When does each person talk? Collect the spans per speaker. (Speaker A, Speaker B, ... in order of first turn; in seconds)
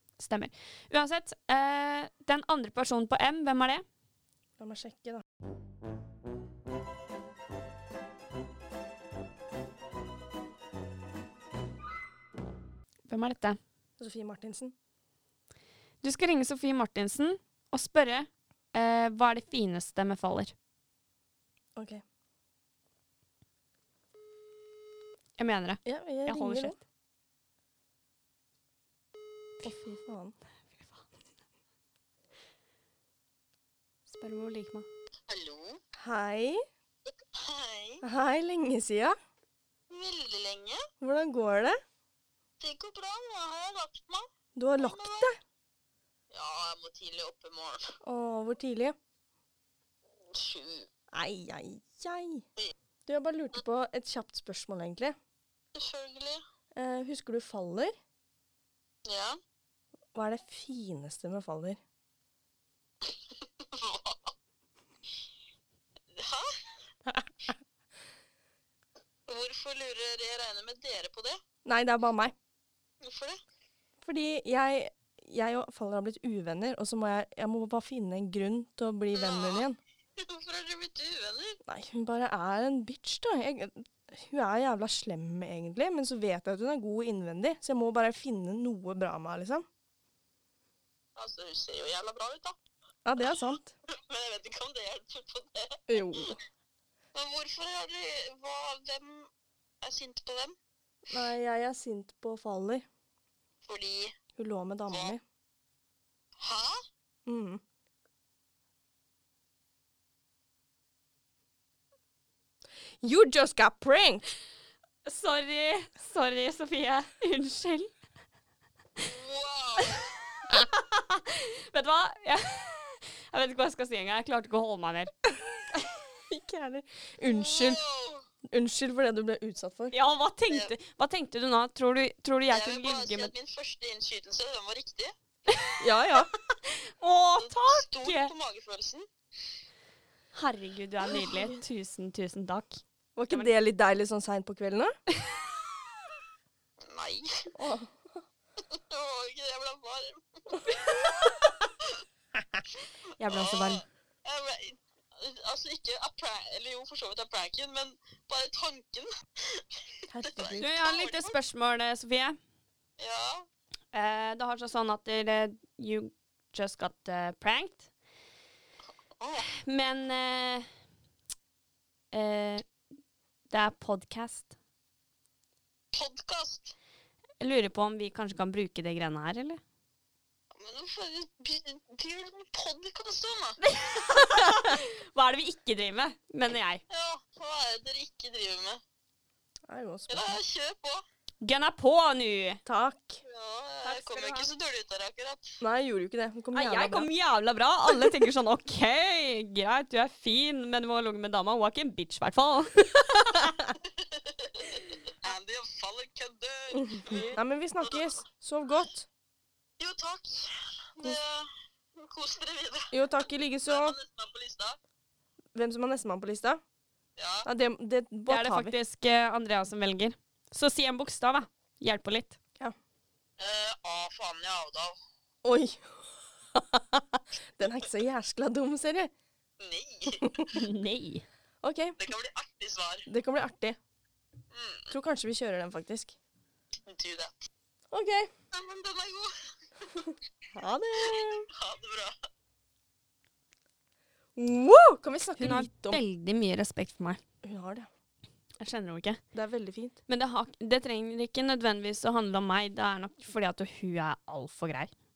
Speaker A: 0.2-3.9, 13.1-13.6, 16.0-20.5, 25.4-26.8, 34.1-34.9, 115.1-117.9, 120.5-125.1, 129.9-133.3, 135.5-135.8, 136.7-138.3, 140.3-143.5, 153.2-153.8, 160.6-162.4, 163.9-167.9, 169.7-170.7, 172.1-172.7, 173.5-174.5, 177.4-179.6, 183.6-186.8, 191.4-192.6, 193.8-194.5, 196.5-203.5, 218.3-222.4, 230.5-231.2, 245.4-247.2, 248.6-249.2, 250.1-254.9
Speaker B: 4.6-5.2, 14.0-14.7, 21.8-22.0, 25.9-26.8, 29.6-30.4, 36.0-36.6, 38.0-39.2, 41.0-41.8, 44.6-45.4, 48.0-49.0, 51.1-52.5, 53.1-55.2, 56.8-57.9, 60.1-61.8, 71.7-72.3, 74.0-79.8, 81.7-89.7, 93.1-93.7, 95.9-96.4, 101.1-102.8, 104.4-105.2, 107.3-107.6, 113.0-114.3, 126.3-127.8, 128.5-130.0, 135.8-136.3, 141.2-141.5, 143.2-145.0, 147.6-147.9, 160.1-160.7, 189.7-190.4, 192.7-193.2, 195.6-197.1, 206.8-209.1, 212.9-214.0, 215.6-216.6, 217.4-218.8, 225.4-226.0, 226.5-229.1, 230.2-230.5, 231.6-232.0, 233.1-233.8, 234.9-236.2, 237.9-238.3, 240.5-241.5, 244.4-246.0, 247.4-247.9, 249.3-250.0
Speaker C: 35.3-35.8, 37.3-38.0, 39.9-40.9, 42.6-45.3, 46.3-47.9, 50.3-50.9, 55.8-56.4, 59.1-59.4, 63.6-64.3, 66.1-66.5, 69.3-71.4, 73.0-73.4, 79.1-79.7, 80.2-81.6, 91.2-92.6, 93.9-95.8, 97.2-99.3, 99.8-100.5, 103.7-104.2, 106.4-106.8, 119.0-120.1, 127.2-128.2, 132.5-135.1, 137.4-139.1, 146.8-147.5, 148.7-151.4, 153.3-159.6, 160.2-161.3, 163.0-163.5, 169.2-169.5, 175.9-176.7, 180.5-183.6, 186.9-188.8, 190.1-191.0, 193.2-195.5, 204.1-208.0, 209.8-212.9, 213.7-214.8, 217.2-217.5, 223.4-225.0, 229.6-230.4, 232.0-233.1, 234.5-234.9, 236.9-237.4, 238.5-239.3, 241.5-242.1